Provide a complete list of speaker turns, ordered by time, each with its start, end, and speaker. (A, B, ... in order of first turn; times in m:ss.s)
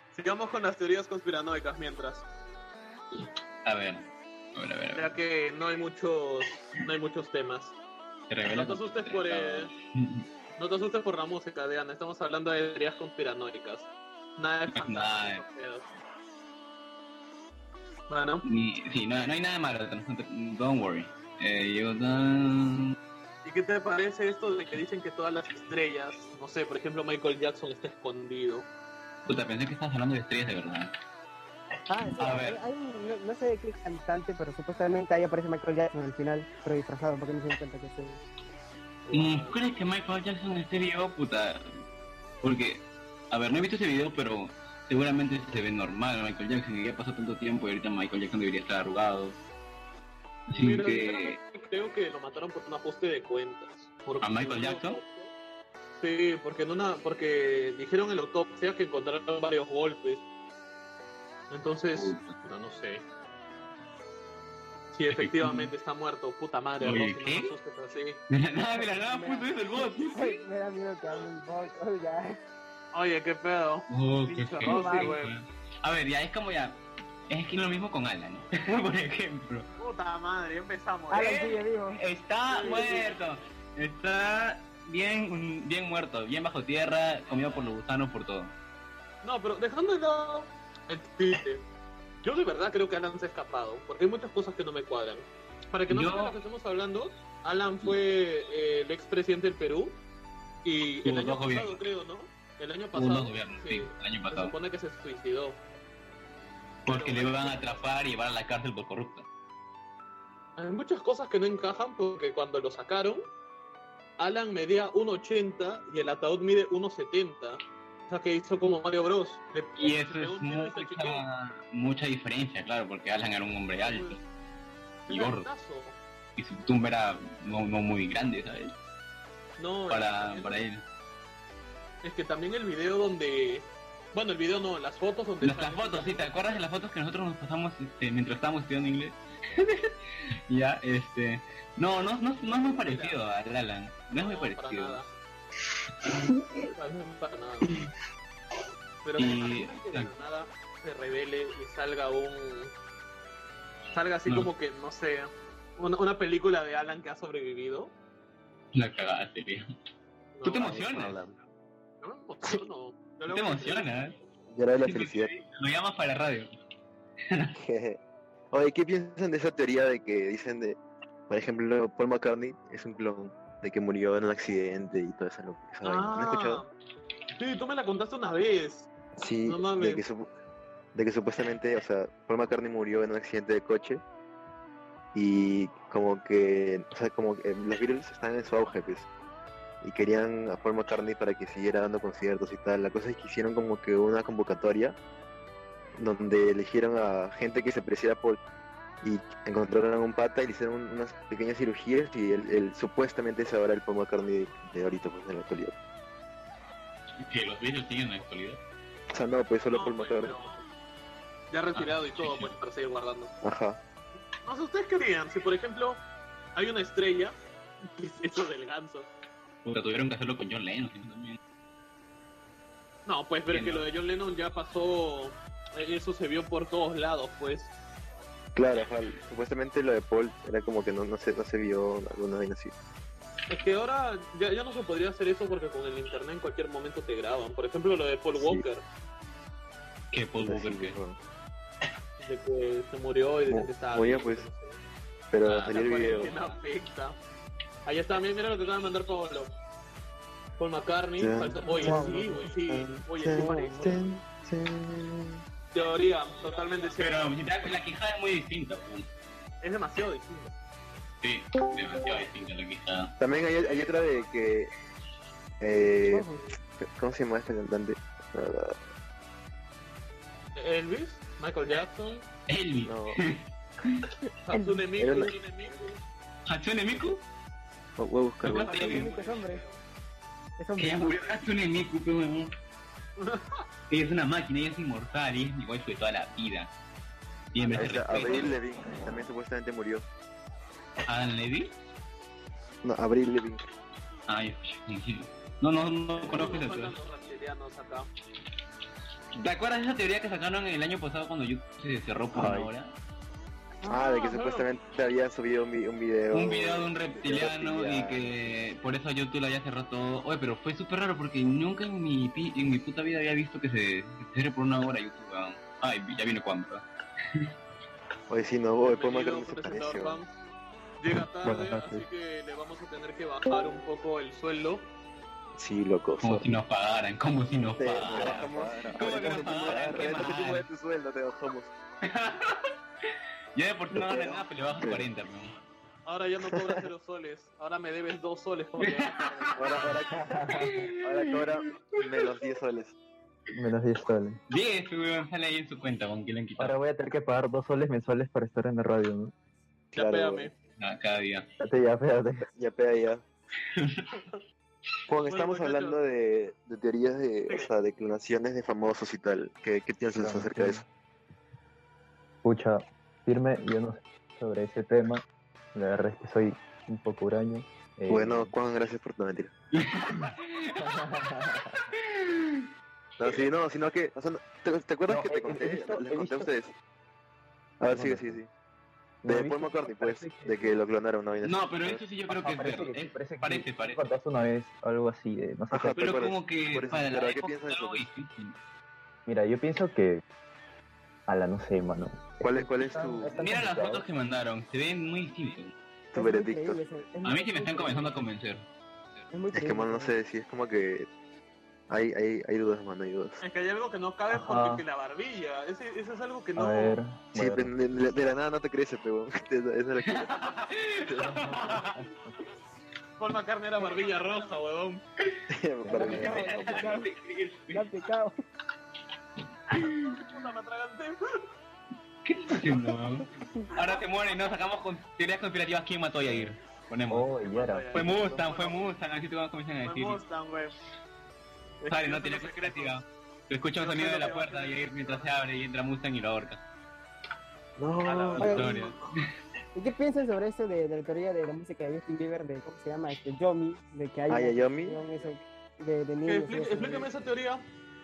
0:00.1-0:02.3 A
0:03.6-0:05.1 B
0:04.9-0:07.8 A
0:08.3-0:10.3 B
0:08.5-0:09.7 A
0:10.6-0:15.9 A
0:14.7-0:15.4 B
0:18.1-0:18.4 A
0:18.4-0:23.0 B
0:23.4-0:28.7 A
0:29.3-0:30.9 B
0:31.9-0:38.2 C
0:32.2-0:32.6 B
0:39.1-0:39.6 A
0:39.1-0:41.7 B
0:42.4-0:49.4 B
0:50.5-0:51.4 B
0:50.6-0:55.3 A
0:54.2-0:55.0 B
0:56.0-1:00.2 A
1:01.5-1:03.0 A
1:02.0-1:02.4 B
1:04.9-1:08.2 A
1:05.1-1:05.7 B
1:06.8-1:07.5 B
1:08.3-1:10.4 B
1:08.7-1:12.4 C
1:12.9-1:15.3 A
1:13.9-1:19.7 B
1:14.6-1:15.2 C
1:19.8-1:21.5 A
1:21.1-1:22.0 C
1:21.2-1:28.5 B
1:22.5-1:23.2 A
1:29.2-1:31.6 A
1:32.2-1:40.0 A
1:35.9-1:36.4 B
1:40.6-1:45.6 A
1:41.0-1:41.8 B
1:42.9-1:44.5 B
1:46.8-1:49.2 B
1:46.9-1:47.8 A
1:50.6-1:53.3 A
1:54.2-2:01.2 A
1:59.8-2:04.2 B
2:03.8-2:04.2 A
2:05.1-2:06.0 A
2:05.1-2:05.5 B
2:06.4-2:08.7 B
2:09.6-2:10.6 A
2:09.9-2:10.8 B
2:12.0-2:16.5 A
2:15.4-2:19.9 B
2:20.5-2:25.0 B
2:22.6-2:23.2 A
2:24.2-2:25.1 A
2:26.6-2:27.7 A
2:29.0-2:32.7 A
2:29.2-2:30.1 B
2:33.9-2:37.9 A
2:38.7-2:39.6 B
2:40.4-2:40.8 A
2:40.4-2:41.2 B
2:40.8-2:41.3 D
2:42.0-2:43.9 A
2:43.3-2:44.2 B
2:44.5-2:45.3 D
2:44.8-2:46.5 B
2:47.6-2:48.0 D
2:48.5-2:56.6 D
2:55.8-2:56.7 A
2:57.4-2:58.9 A
2:59.2-3:00.3 D
2:59.5-3:00.0 A
3:01.0-3:04.0 D
3:05.1-3:09.1 D
3:09.8-3:15.0 D
3:16.0-3:18.4 D
3:19.0-3:25.8 D
3:27.2-3:28.6 B
3:29.1-3:30.3 D
3:29.7-3:30.6 A
3:31.5-3:33.3 A
3:31.8-3:32.5 B
3:33.4-3:33.8 D
3:34.4-3:36.0 A
3:36.6-3:37.4 A
3:38.0-3:39.1 A
3:39.6-3:41.4 B
3:43.1-3:47.7 A
3:43.5-3:43.9 B
3:48.6-3:52.7 D
3:53.5-3:58.8 A
3:58.4-3:58.6 D
4:00.1-4:01.0 B
4:00.4-4:01.2 D
4:02.2-4:04.8 A
4:03.5-4:04.5 D
4:05.3-4:06.3 D
4:05.4-4:07.2 A
4:07.9-4:09.5 A
4:10.6-4:14.0 A
4:11.2-4:15.4 D
4:11.7-4:12.5 C
4:15.7-4:17.4 A
4:17.0-4:19.1 B
4:19.6-4:20.5 A
4:21.2-4:23.1 B
4:23.2-4:24.7 D
4:23.5-4:24.3 A
4:25.6-4:26.3 D
4:26.0-4:26.4 C
4:26.8-4:28.8 D
4:30.6-4:32.3 A
4:32.5-4:34.0 B
4:32.8-4:33.2 D
4:34.5-4:36.0 A
4:35.0-4:35.3 D
4:36.5-4:37.2 B
4:38.0-4:39.0 D
4:38.4-4:39.1 B
4:38.5-4:39.8 A
4:38.7-4:39.6 C
4:40.6-4:41.4 C
4:40.8-4:42.5 B
4:43.2-4:43.6 A
4:43.9-4:46.7 B
4:47.5-4:48.6 B
4:47.6-4:48.5 A
4:47.7-4:50.0 D
4:51.1-4:51.7 B
4:52.8-4:53.6 D
4:54.3-4:57.0 B
4:56.2-4:58.1 A
4:56.3-4:56.6 D
4:59.4-5:02.9 B
5:02.4-5:02.7 E
5:03.8-5:04.7 A
5:03.9-5:08.6 D
5:06.3-5:16.8 B
5:18.3-5:20.2 D
5:18.8-5:20.3 A
5:21.0-5:24.9 A
5:21.4-5:22.0 E
5:25.6-5:26.5 D
5:26.2-5:30.7 B
5:27.8-5:31.7 D
5:28.1-5:30.0 E
5:32.0-5:32.6 B
5:33.6-5:35.5 B
5:33.9-5:35.0 D
5:36.1-5:39.8 A
5:36.5-5:36.8 D
5:38.8-5:41.5 B
5:39.6-5:42.9 D
5:40.1-5:40.8 E
5:43.6-5:44.4 E
5:44.5-5:46.8 B
5:46.6-5:49.3 E
5:49.9-5:50.5 D
5:49.9-5:50.5 A
5:50.8-5:51.5 B
5:51.6-5:52.5 E
5:52.5-5:53.2 D
5:53.7-5:54.1 B
5:55.1-6:00.8 D
5:55.3-5:56.0 A
6:00.1-6:00.9 E
6:02.4-6:05.2 E
6:05.7-6:08.5 E
6:08.1-6:09.5 D
6:09.7-6:11.1 B
6:10.8-6:11.7 E
6:12.0-6:12.7 B
6:13.2-6:16.7 D
6:15.1-6:16.5 E
6:17.8-6:18.5 D
6:17.8-6:18.4 E
6:19.2-6:20.8 E
6:19.2-6:22.0 D
6:21.4-6:24.0 B
6:22.3-6:26.1 E
6:25.7-6:28.1 D
6:26.0-6:28.6 B
6:29.3-6:30.2 E
6:31.3-6:34.0 E
6:32.4-6:33.4 D
6:33.4-6:35.7 B
6:36.1-6:36.8 D
6:36.1-6:38.2 C
6:37.2-6:38.7 B
6:39.3-6:40.2 C
6:39.5-6:41.1 D
6:41.9-6:43.4 D
6:43.4-6:47.0 A
6:44.3-6:44.8 E
6:46.6-6:47.7 E
6:47.4-6:50.6 D
6:50.0-6:51.9 B
6:51.1-6:51.4 D
6:51.2-6:52.4 E
6:53.2-6:55.0 A
6:55.5-6:57.0 D
6:55.8-6:56.4 E
6:55.9-6:57.1 C
6:56.0-6:57.9 B
6:57.7-6:58.4 C
7:00.1-7:01.2 A
7:02.2-7:07.3 B
7:07.1-7:08.1 E
7:07.4-7:08.9 A
7:07.9-7:10.2 B
7:09.8-7:10.8 A
7:11.8-7:13.0 A
7:11.9-7:16.6 B
7:13.8-7:15.3 A
7:17.8-7:18.7 D
7:18.0-7:18.8 A
7:18.4-7:18.8 C
7:18.4-7:19.1 B
7:19.8-7:27.1 C
7:24.3-7:25.0 D
7:26.2-7:27.6 A